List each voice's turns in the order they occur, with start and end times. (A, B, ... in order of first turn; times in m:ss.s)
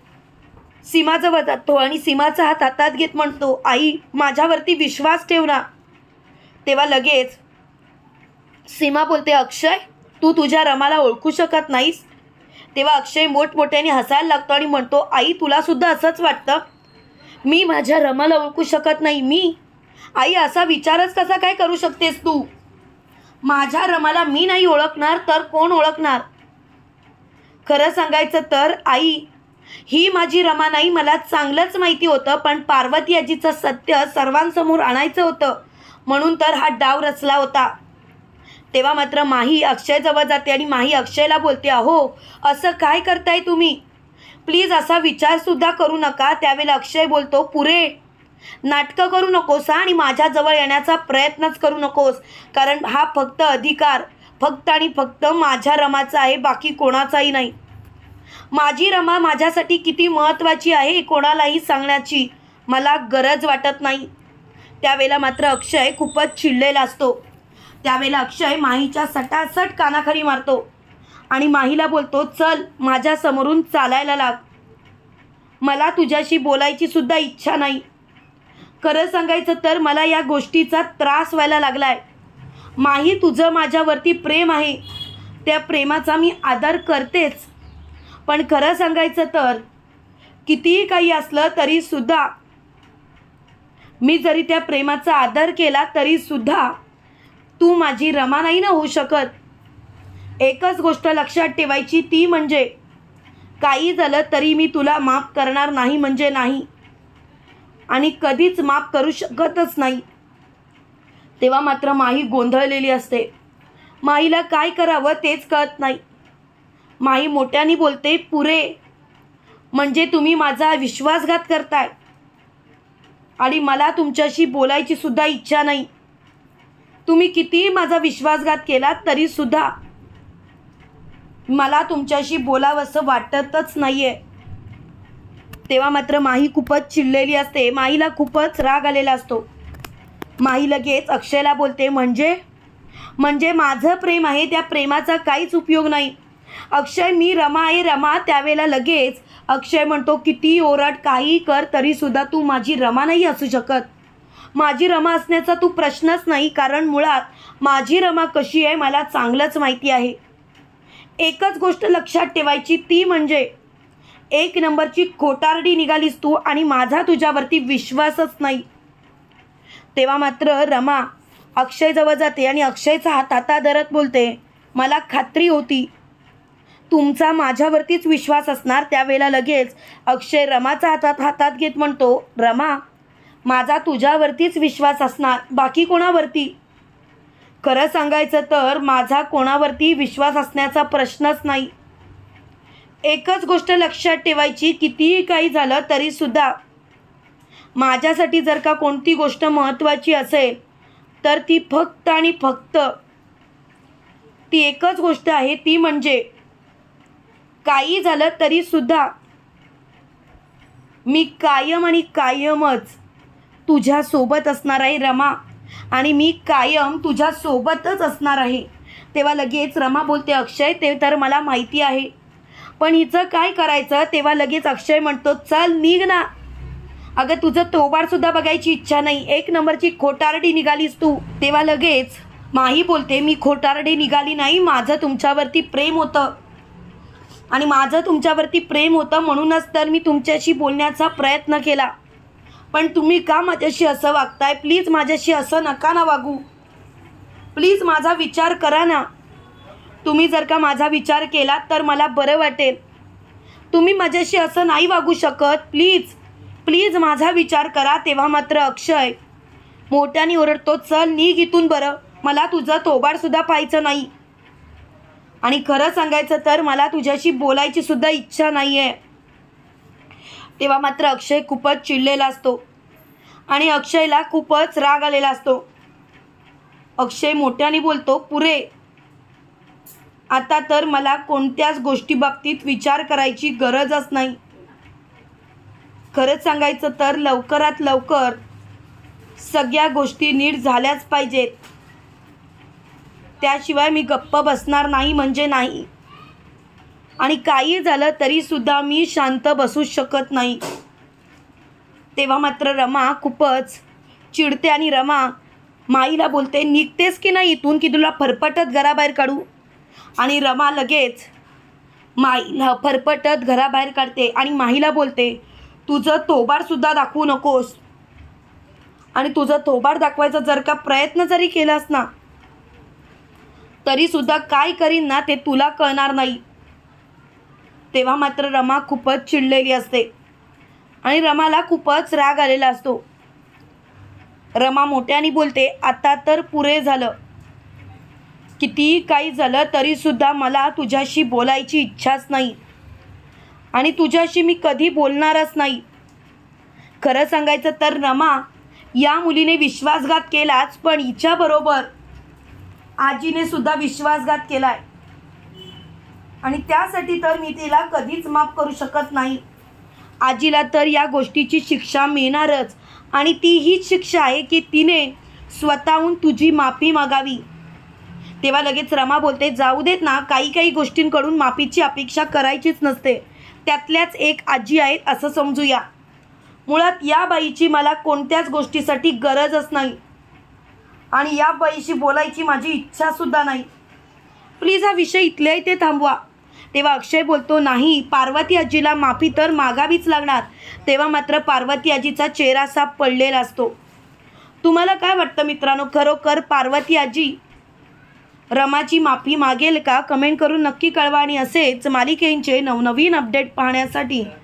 0:00.8-0:05.6 A
0:06.7-0:07.4 A
0:08.7-0:12.1 A
0:12.8-0:16.6 A
0:17.4-0:19.6 A
0:20.2-0:22.5 A
0:23.4-0:26.2 A
0:27.7-0:29.3 A
0:29.9-0:37.7 A
0:38.7-0:43.8 A
0:44.5-0:48.0 A
0:48.6-0:57.5 A
0:58.5-1:04.1 A
1:04.8-1:07.2 A
1:07.8-1:10.7 A
1:11.3-1:14.4 A
1:15.6-1:17.8 A
1:18.8-1:22.0 A
1:22.8-1:24.8 A
1:25.4-1:27.5 A
1:28.3-1:29.6 A
1:30.5-1:32.3 A
1:34.0-1:36.8 A
1:37.6-1:39.3 A
1:40.4-1:42.7 A
1:43.6-1:46.7 A
1:47.9-1:50.0 A
1:51.4-1:53.3 A
1:54.0-1:56.0 A
1:57.0-1:58.8 A
1:59.7-2:01.9 A
2:03.4-2:05.9 A
2:07.1-2:09.7 A
2:11.5-2:14.2 A
2:15.7-2:19.5 A
2:20.4-2:22.4 A
2:23.2-2:26.2 A
2:26.7-2:33.9 A
2:34.6-2:40.2 A
2:41.2-2:43.5 A
2:44.3-2:48.7 A
2:50.0-2:55.9 A
2:56.9-3:02.8 A
3:03.4-3:06.6 A
3:07.6-3:11.7 A
3:13.0-3:16.6 A
3:17.8-3:20.6 A
3:21.2-3:22.9 A
3:24.5-3:26.3 A
3:27.6-3:29.1 A
3:31.1-3:33.0 A
3:33.7-3:35.4 A
3:35.9-3:42.1 A
3:42.8-3:46.3 A
3:47.2-3:56.4 A
3:57.5-4:01.9 A
4:02.7-4:06.4 A
4:07.6-4:09.1 A
4:10.0-4:12.8 A
4:13.7-4:19.2 A
4:19.9-4:24.1 A
4:25.4-4:29.0 A
4:30.6-4:32.6 A
4:33.5-4:35.7 A
4:37.0-4:38.7 A
4:40.3-4:44.4 A
4:46.1-4:48.4 A
4:49.4-4:51.6 A
4:53.4-4:55.9 A
4:57.2-5:00.6 A
5:02.2-5:05.4 A
5:05.9-5:09.5 A
5:10.2-5:11.3 A
5:12.2-5:17.8 A
5:19.2-5:22.1 A
5:23.8-5:26.4 A
5:27.9-5:30.1 A
5:31.0-5:33.0 A
5:34.6-5:37.2 A
5:38.6-5:42.6 A
5:43.7-5:45.8 A
5:47.0-5:51.9 A
5:53.0-5:54.8 A
5:56.4-5:59.4 A
6:00.2-6:07.4 A
6:08.4-6:15.8 A
6:16.7-6:20.0 A
6:21.1-6:23.7 A
6:24.6-6:26.2 A
6:26.7-6:33.8 A
6:34.6-6:37.4 A
6:38.5-6:44.3 A